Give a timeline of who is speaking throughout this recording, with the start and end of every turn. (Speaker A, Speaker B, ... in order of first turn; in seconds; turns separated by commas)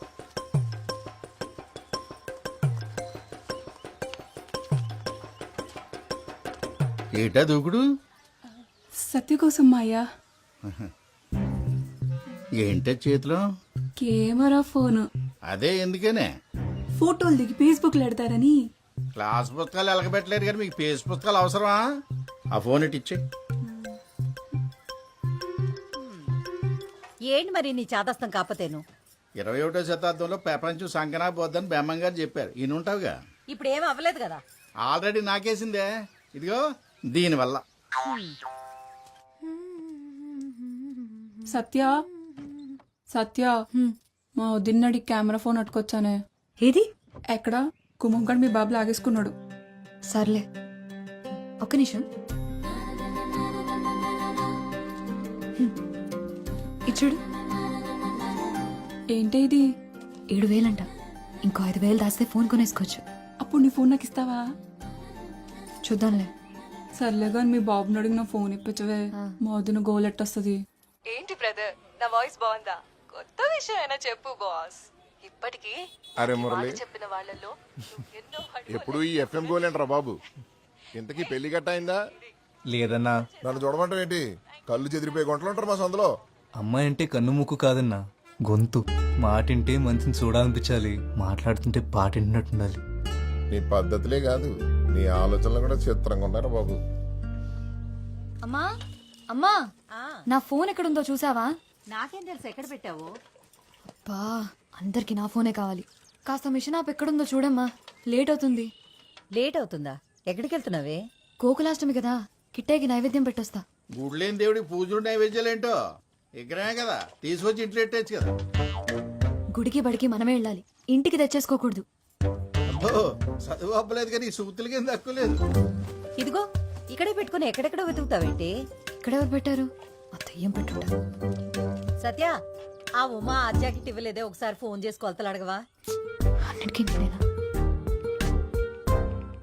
Speaker A: 7.2-7.8, Speaker B: 9.0-10.0, Speaker A: 12.6-13.4, Speaker B: 14.0-15.1, Speaker A: 15.5-16.3, Speaker B: 17.0-18.6, Speaker A: 19.2-21.8, Speaker A: 22.5-23.2, Speaker B: 23.7-24.0, Speaker C: 27.3-28.8, Speaker A: 29.4-33.2, Speaker C: 33.5-34.4, Speaker A: 34.9-36.6, Speaker A: 37.1-37.6, Speaker B: 41.5-41.9, Speaker B: 43.1-46.1, Speaker B: 47.3-49.3, Speaker D: 50.1-50.5, Speaker D: 51.6-52.0, Speaker D: 56.9-57.2, Speaker B: 59.1-59.6, Speaker D: 60.3-60.9, Speaker D: 61.5-63.0, Speaker B: 63.4-64.4, Speaker D: 65.9-66.3, Speaker B: 67.0-70.6, Speaker E: 71.1-75.8, Speaker F: 76.2-76.8, Speaker E: 76.4-77.5, Speaker E: 78.1-79.5, Speaker F: 78.7-80.2, Speaker F: 81.0-82.0, Speaker G: 82.7-83.2, Speaker F: 83.4-86.1, Speaker G: 86.6-92.8, Speaker F: 93.5-96.8, Speaker D: 99.3-99.6, Speaker C: 99.9-100.2, Speaker D: 100.3-101.5, Speaker C: 101.9-103.1, Speaker D: 103.9-108.7, Speaker C: 109.3-111.0, Speaker D: 111.4-113.6, Speaker A: 114.0-115.7, Speaker A: 116.4-118.3, Speaker D: 119.5-121.8, Speaker A: 122.7-125.4, Speaker C: 126.2-128.6, Speaker D: 129.0-130.9, Speaker C: 132.0-132.4, Speaker C: 133.0-135.6, Speaker D: 136.5-137.2